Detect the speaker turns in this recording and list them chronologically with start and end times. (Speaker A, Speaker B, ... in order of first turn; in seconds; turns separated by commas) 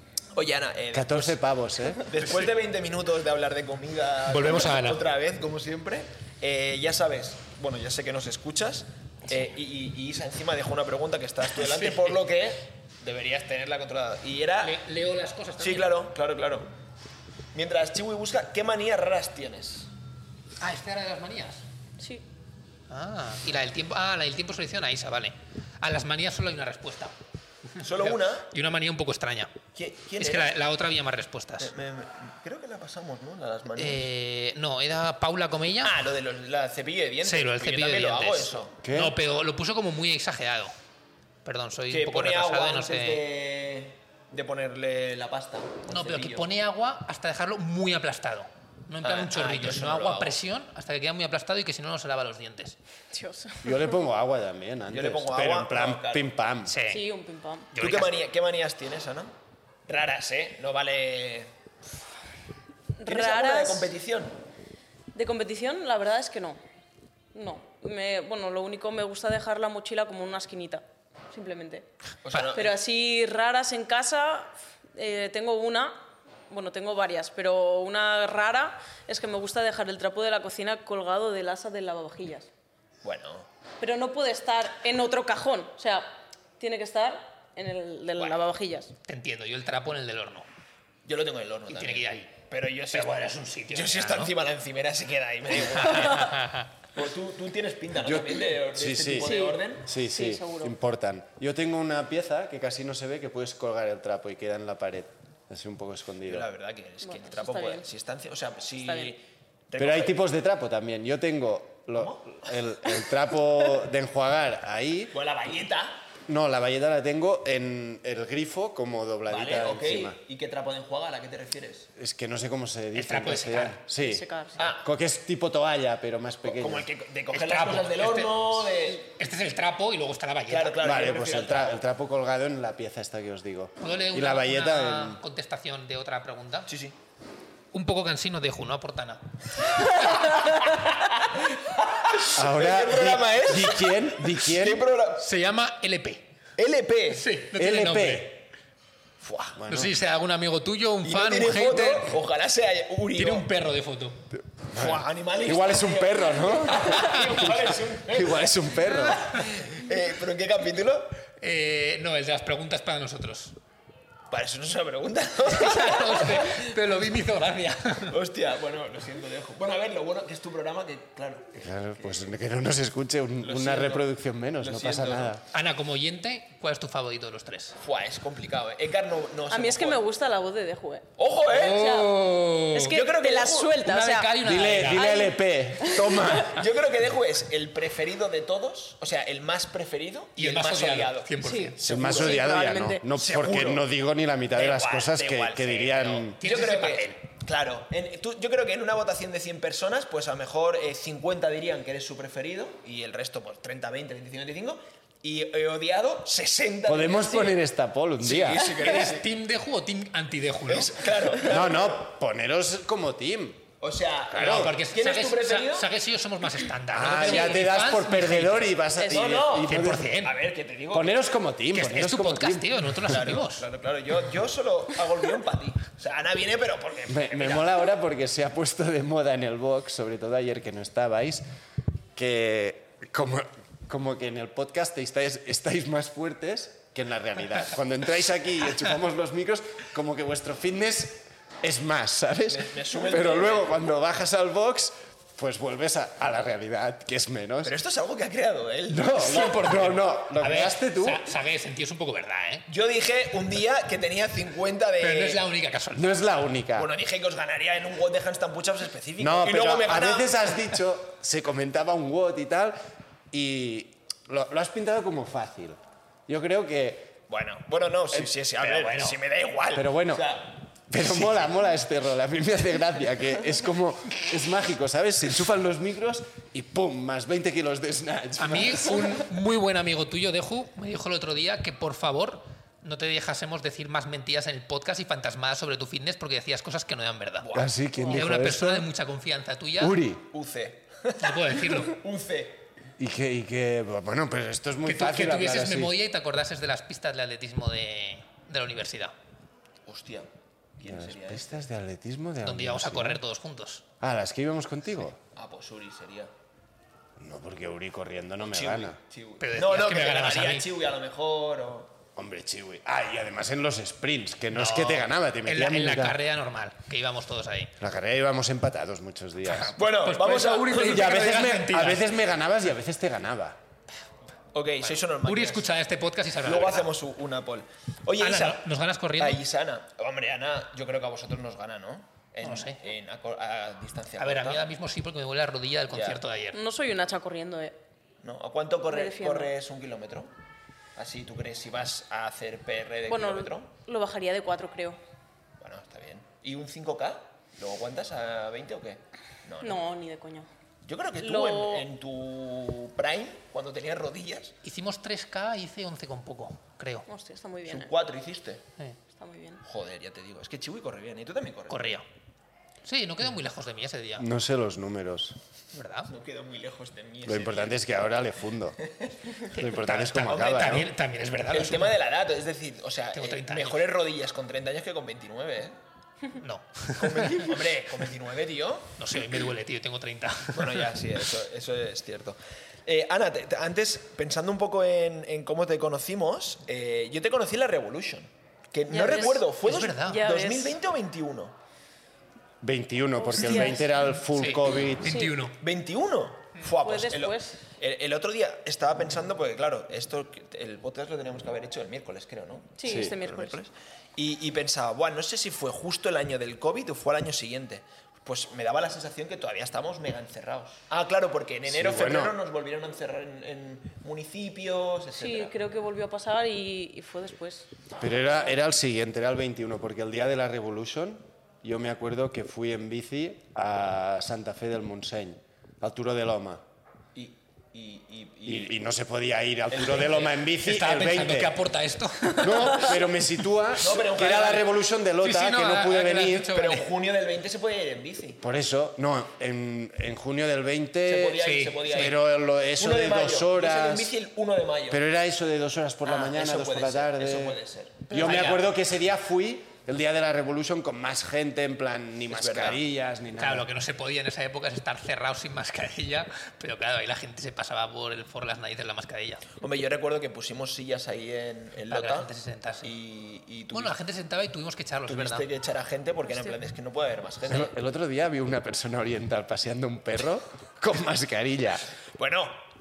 Speaker A: 0.3-1.4, Speaker B: 0.9-2.1, Speaker A: 2.0-14.8, Speaker C: 2.2-2.5, Speaker C: 4.3-5.0, Speaker C: 11.6-12.2, Speaker C: 14.6-15.9, Speaker A: 15.6-16.7, Speaker A: 17.5-19.9, Speaker C: 20.6-21.6, Speaker D: 22.0-22.2, Speaker C: 22.9-27.1, Speaker C: 27.8-29.5, Speaker A: 27.8-28.5, Speaker A: 29.8-30.5, Speaker C: 30.2-31.7, Speaker A: 31.6-34.1, Speaker C: 33.8-36.0, Speaker A: 35.8-38.7, Speaker C: 37.2-40.7, Speaker B: 38.8-39.1, Speaker C: 41.5-43.2, Speaker A: 41.9-46.5, Speaker C: 45.9-52.8, Speaker A: 49.0-50.4, Speaker D: 53.1-53.9, Speaker B: 53.6-56.8, Speaker A: 54.9-56.3, Speaker C: 56.6-57.0, Speaker D: 56.9-57.7, Speaker C: 57.7-58.1, Speaker A: 57.8-59.3, Speaker A: 59.9-61.5, Speaker D: 63.0-63.9, Speaker A: 63.0-64.3, Speaker D: 65.1-66.6, Speaker D: 67.3-71.9, Speaker A: 72.2-72.8, Speaker D: 72.5-82.5, Speaker A: 83.0-83.5, Speaker D: 83.8-88.9, Speaker C: 89.0-90.5, Speaker A: 91.0-99.9, Speaker C: 91.7-94.3, Speaker C: 95.8-96.7, Speaker B: 98.0-106.5, Speaker D: 99.2-100.8, Speaker A: 106.2-110.2, Speaker D: 107.0-107.9, Speaker D: 108.8-109.1, Speaker B: 109.8-115.1, Speaker A: 112.0-112.5, Speaker A: 115.1-116.0, Speaker B: 116.3-120.2, Speaker A: 119.3-121.9, Speaker B: 122.0-126.9, Speaker C: 123.0-123.8, Speaker D: 124.0-124.6, Speaker A: 124.5-124.8, Speaker A: 126.5-129.1, Speaker C: 127.3-130.9, Speaker A: 130.5-131.8, Speaker B: 130.8-135.2, Speaker C: 133.8-136.7, Speaker A: 136.7-136.9, Speaker C: 137.7-140.6, Speaker A: 140.2-145.3, Speaker B: 142.3-144.9, Speaker C: 145.2-146.2, Speaker A: 146.6-147.2, Speaker C: 147.1-148.4, Speaker B: 147.5-148.4, Speaker A: 149.2-149.6, Speaker B: 149.5-149.9, Speaker C: 149.7-152.2, Speaker A: 151.0-153.5, Speaker C: 153.1-154.2, Speaker B: 154.7-159.3, Speaker A: 154.8-161.1, Speaker C: 157.0-157.4, Speaker C: 161.4-163.6, Speaker A: 164.3-166.7, Speaker C: 165.4-168.2, Speaker A: 168.1-172.2, Speaker B: 171.5-175.4, Speaker A: 173.4-174.1, Speaker A: 174.6-175.4, Speaker C: 175.5-177.8, Speaker A: 177.8-180.0, Speaker D: 179.5-184.3, Speaker A: 181.2-181.9, Speaker C: 181.5-183.0, Speaker A: 182.8-183.8, Speaker C: 183.8-185.1, Speaker B: 184.4-186.6, Speaker D: 184.9-186.4, Speaker A: 186.3-192.6, Speaker C: 190.4-191.8, Speaker D: 191.4-193.1, Speaker B: 191.8-196.4, Speaker A: 193.1-193.8, Speaker A: 194.5-207.6, Speaker C: 196.4-197.2, Speaker B: 206.9-208.7, Speaker A: 208.2-209.2, Speaker C: 208.6-211.3, Speaker A: 210.7-211.9, Speaker B: 211.4-213.6, Speaker A: 213.8-215.9, Speaker B: 214.3-214.8, Speaker C: 214.3-218.7, Speaker B: 216.9-220.1, Speaker D: 219.0-219.4, Speaker A: 219.1-221.1, Speaker C: 219.5-220.4, Speaker B: 220.9-223.3, Speaker C: 221.7-223.7, Speaker A: 223.1-227.8, Speaker B: 227.1-231.4, Speaker B: 232.1-247.7, Speaker A: 242.5-243.7, Speaker A: 247.6-250.0, Speaker B: 248.9-251.2, Speaker C: 249.3-252.6, Speaker A: 252.7-255.4, Speaker C: 255.0-256.1, Speaker B: 255.9-256.9, Speaker A: 256.8-260.5, Speaker B: 259.2-262.8, Speaker B: 263.3-267.1, Speaker A: 267.3-270.6, Speaker C: 268.6-269.2, Speaker B: 269.7-270.2, Speaker B: 270.9-279.2, Speaker C: 278.4-287.5, Speaker A: 287.4-288.1, Speaker B: 287.5-288.9, Speaker C: 288.1-290.0, Speaker B: 289.8-290.2, Speaker A: 290.3-292.6, Speaker C: 291.2-292.0, Speaker B: 293.0-295.9, Speaker C: 294.9-299.1, Speaker A: 299.9-301.6, Speaker B: 300.9-303.2, Speaker C: 302.4-303.8, Speaker B: 304.0-305.2, Speaker A: 305.4-306.3, Speaker B: 307.2-309.0, Speaker A: 308.5-311.9, Speaker C: 309.4-310.7, Speaker B: 312.1-316.2, Speaker C: 314.5-317.7, Speaker B: 317.8-319.8, Speaker C: 319.4-322.1, Speaker A: 319.8-321.4, Speaker B: 320.8-323.6, Speaker A: 324.5-325.7, Speaker C: 324.9-326.9, Speaker A: 326.4-328.6, Speaker C: 328.2-329.4, Speaker A: 329.2-334.6, Speaker C: 332.4-332.8, Speaker C: 334.2-336.6, Speaker A: 335.9-336.2, Speaker D: 336.5-337.8, Speaker A: 338.2-340.3, Speaker D: 338.9-339.5, Speaker A: 341.0-343.7, Speaker D: 343.1-345.0, Speaker A: 345.6-349.8, Speaker D: 349.6-350.5, Speaker A: 350.8-354.5, Speaker D: 351.2-351.9, Speaker C: 354.6-357.0, Speaker D: 357.1-357.9, Speaker A: 357.7-358.6, Speaker D: 359.1-359.6, Speaker A: 359.6-362.0, Speaker C: 361.7-362.1, Speaker C: 362.8-364.3, Speaker B: 364.2-365.4, Speaker C: 365.7-366.1, Speaker A: 366.1-367.8, Speaker B: 367.2-368.8, Speaker A: 368.9-369.3, Speaker C: 369.5-371.9, Speaker B: 369.5-370.9, Speaker A: 370.3-370.9, Speaker A: 371.5-375.8, Speaker C: 373.1-373.9, Speaker C: 376.3-377.6, Speaker A: 376.9-378.9, Speaker C: 379.0-380.9, Speaker A: 380.5-391.5, Speaker D: 388.9-390.8, Speaker C: 389.1-390.2, Speaker B: 392.6-395.2, Speaker D: 393.2-393.9, Speaker C: 394.2-395.6, Speaker D: 395.0-395.4, Speaker A: 395.6-415.5, Speaker D: 396.8-397.6, Speaker D: 402.8-403.6, Speaker B: 402.9-403.3, Speaker B: 411.7-412.4, Speaker D: 415.1-417.7, Speaker B: 418.0-426.6, Speaker A: 427.1-428.7, Speaker B: 428.5-431.5, Speaker A: 429.7-430.4, Speaker C: 430.6-432.9, Speaker B: 432.4-436.5, Speaker A: 433.8-434.7, Speaker C: 435.2-436.9, Speaker A: 436.5-438.4, Speaker B: 438.4-444.1, Speaker A: 441.0-442.1, Speaker C: 441.4-442.1, Speaker A: 442.8-445.0, Speaker B: 444.9-453.7, Speaker A: 446.0-448.6, Speaker C: 448.1-448.6, Speaker A: 452.3-452.8, Speaker C: 453.4-459.5, Speaker A: 459.6-462.3, Speaker C: 461.9-462.9, Speaker A: 462.8-464.0, Speaker C: 463.7-465.5, Speaker A: 465.1-467.7, Speaker B: 467.5-471.9, Speaker A: 472.2-472.6